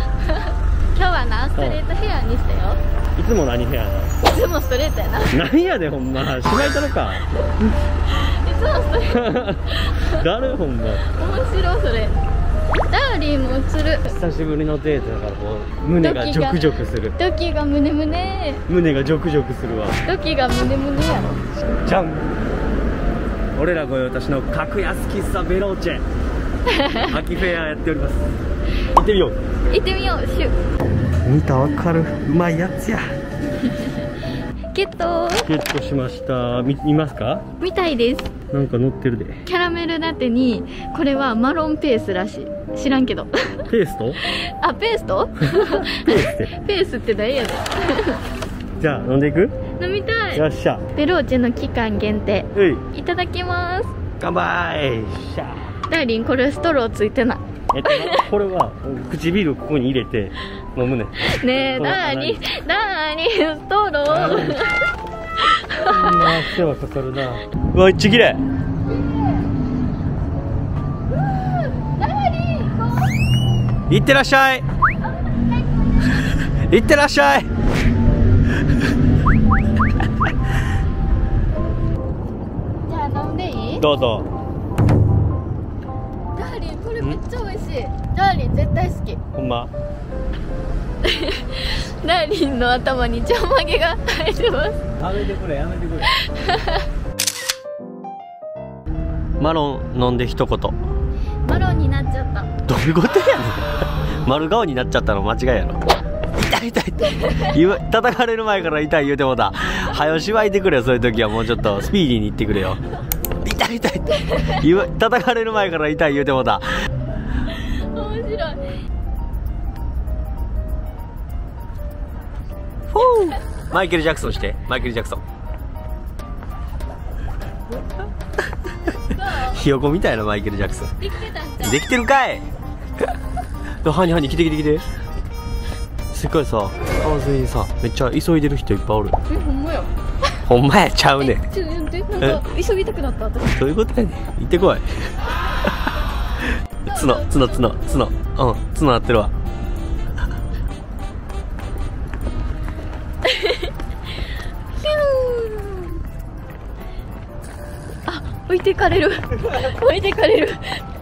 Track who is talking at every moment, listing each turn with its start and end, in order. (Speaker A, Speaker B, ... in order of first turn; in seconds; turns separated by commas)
Speaker A: 0.2-2.8, Speaker B: 1.6-1.8, Speaker B: 3.2-4.2, Speaker A: 4.2-5.5, Speaker B: 5.3-7.3, Speaker A: 8.1-10.2, Speaker B: 9.1-11.1, Speaker A: 11.1-12.2, Speaker A: 12.9-14.1, Speaker B: 14.1-17.2, Speaker A: 16.0-18.6, Speaker B: 18.7-20.0, Speaker A: 20.1-21.4, Speaker B: 21.7-22.4, Speaker B: 23.6-26.0, Speaker A: 26.7-27.1, Speaker B: 27.1-28.3, Speaker B: 28.9-29.4, Speaker A: 29.7-30.6, Speaker B: 31.2-33.1, Speaker A: 33.6-34.1, Speaker A: 34.7-35.5, Speaker B: 35.4-37.5, Speaker A: 37.6-38.4, Speaker B: 38.5-39.4, Speaker A: 39.5-43.7, Speaker B: 43.7-44.2, Speaker A: 44.2-48.2, Speaker B: 45.5-46.5, Speaker B: 48.8-49.5, Speaker A: 49.8-53.9, Speaker B: 50.3-50.9, Speaker B: 52.5-52.8, Speaker B: 54.2-55.8, Speaker A: 55.9-58.3, Speaker B: 57.7-62.5, Speaker A: 61.2-64.8, Speaker B: 64.1-64.7, Speaker A: 65.4-66.3, Speaker B: 65.8-68.4, Speaker A: 68.9-69.5, Speaker A: 71.3-73.1, Speaker B: 73.9-74.7, Speaker B: 76.3-77.5, Speaker A: 82.9-83.9, Speaker B: 83.8-84.3, Speaker A: 86.3-89.2, Speaker B: 89.3-89.7, Speaker A: 91.0-94.9, Speaker B: 95.0-96.1, Speaker A: 96.1-96.9, Speaker B: 99.4-100.8, Speaker A: 101.4-102.5, Speaker B: 102.7-103.7, Speaker B: 104.2-105.8, Speaker B: 106.3-112.8, Speaker A: 107.0-107.5, Speaker B: 113.4-116.7, Speaker A: 114.2-114.6, Speaker A: 117.4-118.8, Speaker B: 122.9-125.2, Speaker A: 129.1-129.6, Speaker B: 129.4-131.1, Speaker A: 131.0-131.9, Speaker B: 131.6-132.5, Speaker B: 133.8-134.9, Speaker B: 136.1-139.2, Speaker A: 139.3-140.4, Speaker B: 140.5-141.5, Speaker A: 141.2-143.6, Speaker B: 143.6-145.2, Speaker B: 145.7-145.9, Speaker A: 146.8-148.1, Speaker B: 146.8-149.3, Speaker A: 153.2-153.7, Speaker A: 154.7-156.0, Speaker A: 158.1-160.8